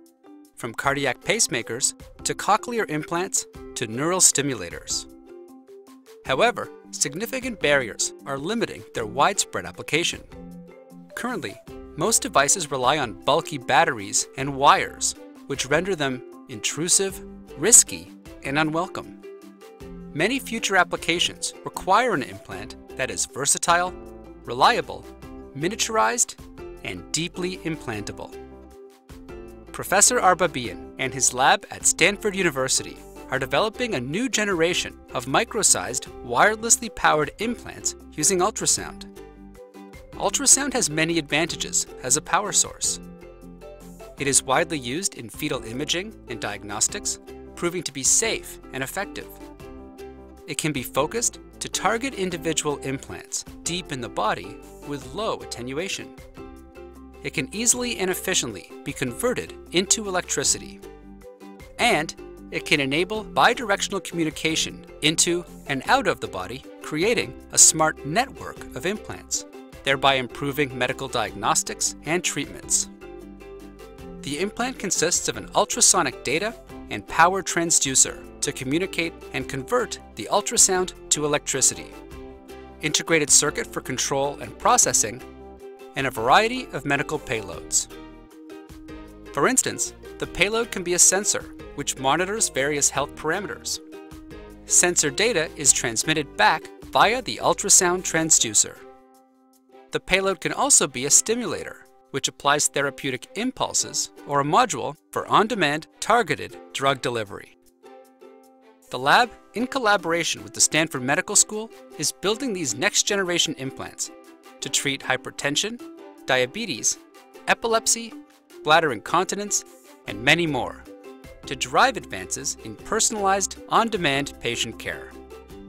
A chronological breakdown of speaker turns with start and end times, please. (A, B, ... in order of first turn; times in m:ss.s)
0:00.6-0:05.1 A
0:06.2-0:10.3 A
0:11.1-0:19.2 A
0:20.1-0:28.4 A
0:29.7-0:39.1 A
0:40.2-0:43.0 A
0:44.2-0:49.4 A
0:50.5-0:56.2 A
0:57.2-1:00.8 A
1:01.8-1:12.9 A
1:14.2-1:22.0 A
1:22.8-1:25.2 A
1:25.9-1:27.9 A
1:29.3-1:33.8 A
1:34.7-1:38.8 A
1:39.9-1:47.6 A
1:48.9-2:00.9 A
2:01.4-2:05.1 A